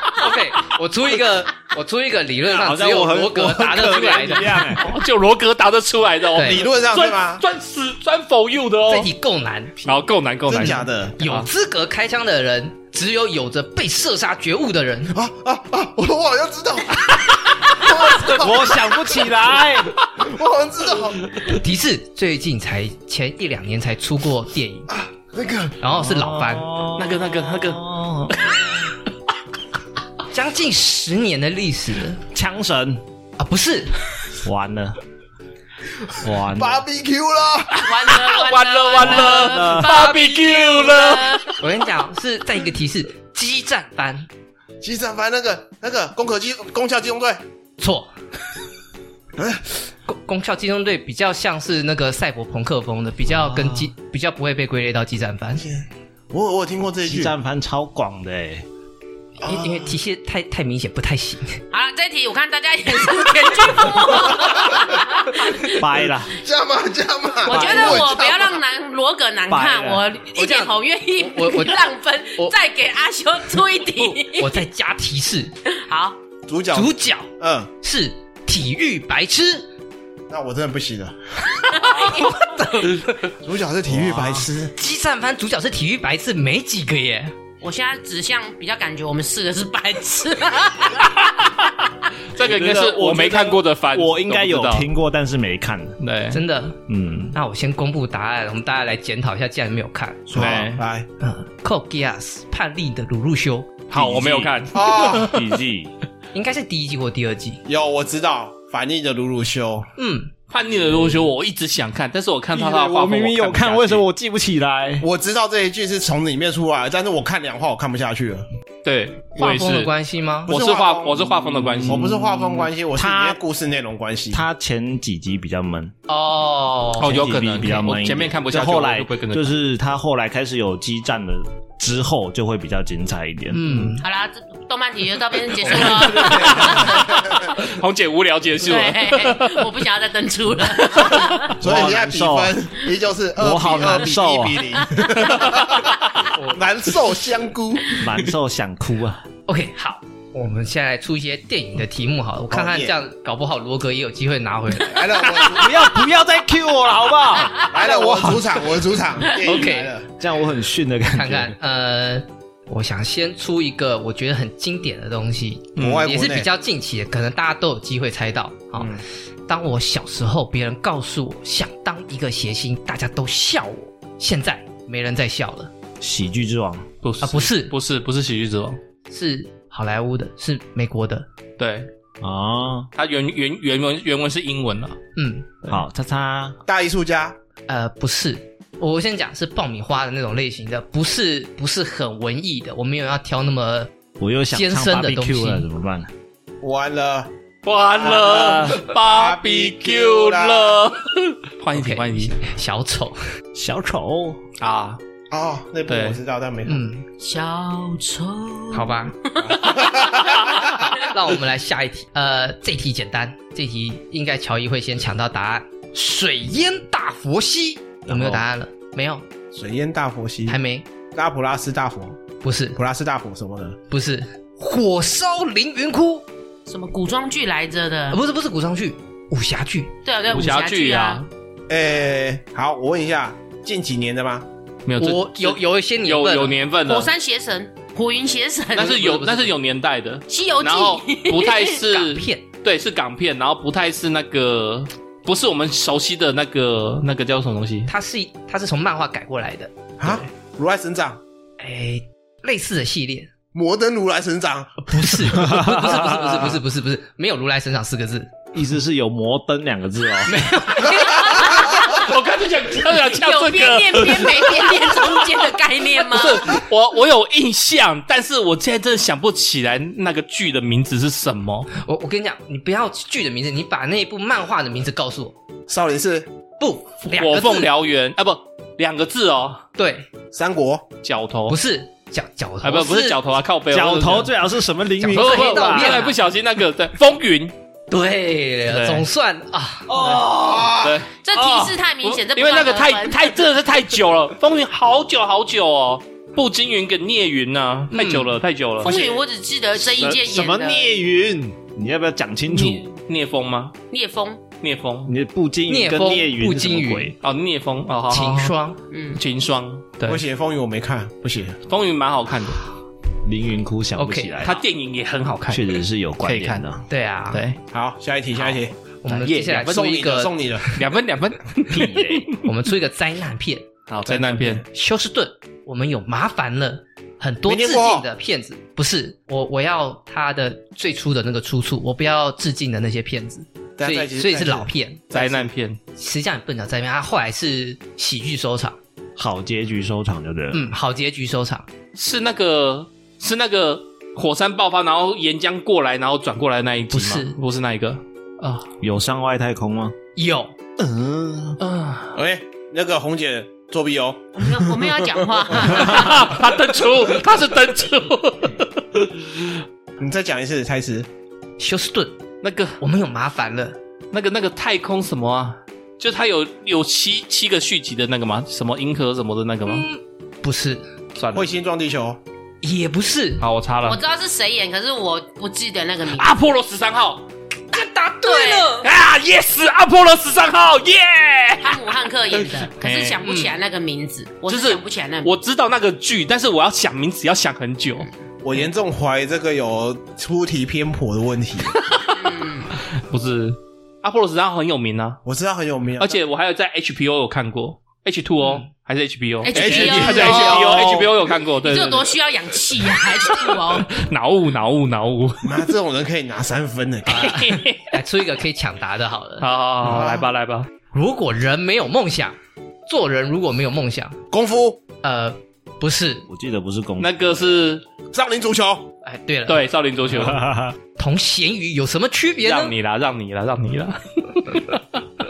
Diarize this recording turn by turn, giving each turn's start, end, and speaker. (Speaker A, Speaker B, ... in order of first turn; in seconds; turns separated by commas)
Speaker A: 0.2-4.7, Speaker B: 2.5-4.9, Speaker C: 4.8-9.1, Speaker A: 6.4-6.7, Speaker D: 6.4-7.4, Speaker A: 8.9-10.0, Speaker C: 9.8-11.5, Speaker D: 10.5-11.2, Speaker A: 10.6-15.2, Speaker D: 15.1-18.9, Speaker B: 18.3-20.0, Speaker D: 20.2-21.3, Speaker A: 21.5-24.9, Speaker D: 24.9-25.8, Speaker A: 25.8-26.7, Speaker B: 25.9-28.9, Speaker C: 27.0-28.8, Speaker A: 30.3-32.2, Speaker B: 32.3-33.0, Speaker A: 33.4-33.9, Speaker B: 34.4-35.0, Speaker B: 36.2-36.9, Speaker D: 36.6-37.9, Speaker E: 37.8-41.6, Speaker C: 38.0-41.5, Speaker B: 39.0-40.0, Speaker A: 41.6-44.3, Speaker D: 44.8-47.4, Speaker A: 47.8-48.1, Speaker D: 49.4-49.7, Speaker A: 50.1-55.6, Speaker B: 53.2-53.9, Speaker D: 55.6-57.3, Speaker B: 57.0-58.7, Speaker A: 59.4-61.6, Speaker D: 59.4-59.9, Speaker E: 61.7-65.8, Speaker B: 65.7-66.3, Speaker D: 66.4-68.6, Speaker E: 67.5-74.6, Speaker A: 67.5-68.0, Speaker B: 69.5-70.0, Speaker A: 70.3-72.5, Speaker A: 74.1-75.5, Speaker E: 75.7-76.2, Speaker D: 76.5-77.7, Speaker A: 76.7-77.3, Speaker A: 77.8-79.7, Speaker D: 80.3-81.2, Speaker E: 81.7-82.5, Speaker A: 81.8-83.2, Speaker D: 83.4-84.7, Speaker B: 83.9-84.5, Speaker A: 84.8-87.3, Speaker E: 87.6-91.1, Speaker C: 91.2-94.9, Speaker B: 92.4-96.0, Speaker C: 96.0-96.4, Speaker A: 96.3-96.8, Speaker B: 96.9-97.3, Speaker A: 97.3-100.6, Speaker D: 100.3-101.1, Speaker C: 100.3-100.8, Speaker A: 101.2-103.8, Speaker C: 103.9-105.4, Speaker B: 103.9-105.9, Speaker D: 104.7-105.3, Speaker A: 106.3-107.6, Speaker D: 107.7-109.9, Speaker A: 110.0-110.3, Speaker C: 110.5-114.0, Speaker B: 112.5-115.1, Speaker D: 115.0-118.5, Speaker C: 118.8-119.9, Speaker A: 119.4-120.5, Speaker D: 120.5-121.3, Speaker C: 120.5-122.1, Speaker B: 121.6-123.4, Speaker D: 121.9-124.4, Speaker B: 124.3-125.9, Speaker A: 126.1-127.2, Speaker C: 127.0-129.5, Speaker B: 127.0-134.0, Speaker A: 133.5-134.0, Speaker E: 134.0-137.2, Speaker C: 135.8-139.7, Speaker D: 136.0-137.5, Speaker E: 138.6-141.6, Speaker C: 140.8-141.5, Speaker B: 141.6-142.6, Speaker D: 141.6-148.0, Speaker B: 143.4-144.8, Speaker C: 145.5-145.9, Speaker B: 148.0-149.2, Speaker A: 149.5-155.2, Speaker D: 152.5-152.9, Speaker D: 154.8-155.8, Speaker B: 155.5-158.7, Speaker D: 157.7-160.1, Speaker A: 159.4-159.9, Speaker B: 160.2-161.6, Speaker A: 161.1-175.7, Speaker C: 165.8-166.1, Speaker D: 165.8-166.5, Speaker B: 176.0-176.9, Speaker C: 177.0-178.8, Speaker A: 177.2-177.7, Speaker A: 179.1-181.2, Speaker C: 181.6-181.9, Speaker B: 182.2-182.9, Speaker C: 182.9-185.0, Speaker A: 185.2-185.5, Speaker B: 185.7-186.6, Speaker D: 186.7-187.4, Speaker A: 187.7-193.9, Speaker B: 194.2-196.1, Speaker A: 194.5-195.7, Speaker D: 196.6-197.3, Speaker C: 197.7-202.4, Speaker D: 198.0-200.8, Speaker A: 201.7-203.2, Speaker B: 203.6-204.4, Speaker C: 204.6-205.0, Speaker D: 205.3-206.8, Speaker C: 205.9-206.2, Speaker A: 206.7-207.1, Speaker E: 207.2-210.2, Speaker A: 208.7-209.2, Speaker D: 209.4-210.5, Speaker A: 210.9-219.2, Speaker B: 218.1-218.4, Speaker D: 219.5-220.6, Speaker A: 220.5-220.9, Speaker D: 221.1-222.2, Speaker A: 222.4-222.8, Speaker D: 222.8-223.8, Speaker A: 223.9-226.2, Speaker E: 226.7-228.2, Speaker A: 228.1-229.9, Speaker E: 230.1-231.2, Speaker C: 230.3-231.3, Speaker D: 231.7-234.5, Speaker C: 234.9-237.1, Speaker A: 235.0-236.6, Speaker E: 236.9-239.1, Speaker C: 238.8-247.9, Speaker A: 238.8-239.6, Speaker E: 240.3-241.8, Speaker A: 241.8-242.4, Speaker A: 247.9-249.7, Speaker D: 250.0-251.2, Speaker A: 251.6-253.3, Speaker D: 253.5-255.4, Speaker A: 254.8-258.3, Speaker B: 255.4-256.4, Speaker B: 258.5-260.5, Speaker A: 260.2-262.0, Speaker C: 261.6-265.0, Speaker E: 263.1-266.6, Speaker C: 266.0-271.7, Speaker A: 271.7-275.3, Speaker D: 275.7-276.3, Speaker A: 276.6-277.7, Speaker C: 277.1-279.6, Speaker A: 279.8-280.1, Speaker D: 280.3-280.9, Speaker C: 281.0-281.6, Speaker A: 281.5-283.2, Speaker C: 282.6-284.3, Speaker B: 283.7-286.1, Speaker A: 285.0-286.2, Speaker C: 285.1-287.5, Speaker A: 287.9-290.4, Speaker C: 288.7-289.1, Speaker B: 289.9-290.8, Speaker D: 290.3-291.0, Speaker C: 290.8-299.2, Speaker E: 291.2-293.3, Speaker A: 297.9-298.4, Speaker E: 298.8-300.9, Speaker B: 299.9-302.9, Speaker C: 303.1-303.8, Speaker E: 303.9-304.4, Speaker C: 304.6-305.1, Speaker B: 305.1-307.1, Speaker A: 305.7-307.1, Speaker C: 307.2-308.6, Speaker A: 308.1-308.8, Speaker E: 308.9-309.2, Speaker C: 309.2-310.2, Speaker D: 310.1-311.6, Speaker C: 311.7-312.6, Speaker B: 313.2-314.6, Speaker A: 314.0-314.4, Speaker C: 314.4-316.6, Speaker B: 315.5-316.8, Speaker A: 316.9-317.4, Speaker C: 317.3-317.6, Speaker D: 317.7-318.7, Speaker A: 319.0-320.4, Speaker C: 319.1-319.6, Speaker D: 319.5-320.7, Speaker C: 320.7-322.4, Speaker B: 321.7-322.3, Speaker A: 322.4-323.7, Speaker C: 323.9-324.6, Speaker D: 324.1-324.6, Speaker A: 324.6-335.1, Speaker D: 327.5-328.1, Speaker D: 333.8-335.5, Speaker C: 335.1-335.8, Speaker A: 336.0-338.8, Speaker B: 339.2-340.7, Speaker A: 340.5-341.7, Speaker C: 341.9-348.6, Speaker A: 346.9-347.3, Speaker B: 348.8-349.9, Speaker A: 350.2-350.5, Speaker B: 350.8-351.6, Speaker C: 351.6-352.1, Speaker D: 352.1-355.8, Speaker E: 354.4-356.4, Speaker C: 355.6-359.6, Speaker D: 360.0-361.1, Speaker A: 361.6-362.2, Speaker C: 362.4-362.8, Speaker A: 362.8-363.8, Speaker C: 364.1-369.9, Speaker A: 369.7-370.8, Speaker C: 371.2-371.5, Speaker D: 371.3-372.2, Speaker A: 372.6-373.4, Speaker C: 373.4-374.0, Speaker E: 373.8-376.4, Speaker C: 376.1-377.2, Speaker A: 377.7-378.9, Speaker E: 378.2-378.7, Speaker C: 378.8-383.2, Speaker E: 381.6-385.3, Speaker A: 383.2-383.6, Speaker C: 384.5-388.1, Speaker D: 388.4-391.8, Speaker C: 391.9-392.2, Speaker E: 392.1-392.7, Speaker C: 392.8-395.2, Speaker D: 395.2-396.1, Speaker C: 396.0-402.1, Speaker E: 399.4-400.9, Speaker D: 399.5-401.2, Speaker E: 401.6-404.0, Speaker C: 402.9-405.6, Speaker D: 405.4-407.4, Speaker A: 407.1-409.5, Speaker C: 407.1-407.8, Speaker C: 409.4-410.7, Speaker D: 409.8-410.3, Speaker A: 410.9-412.4, Speaker A: 412.9-414.2, Speaker D: 414.3-414.8, Speaker A: 415.0-416.2, Speaker B: 416.3-417.4, Speaker C: 417.0-417.8, Speaker D: 418.1-418.9, Speaker A: 419.0-419.6, Speaker C: 419.5-420.4, Speaker B: 420.1-420.8, Speaker A: 421.0-422.7, Speaker C: 422.4-424.8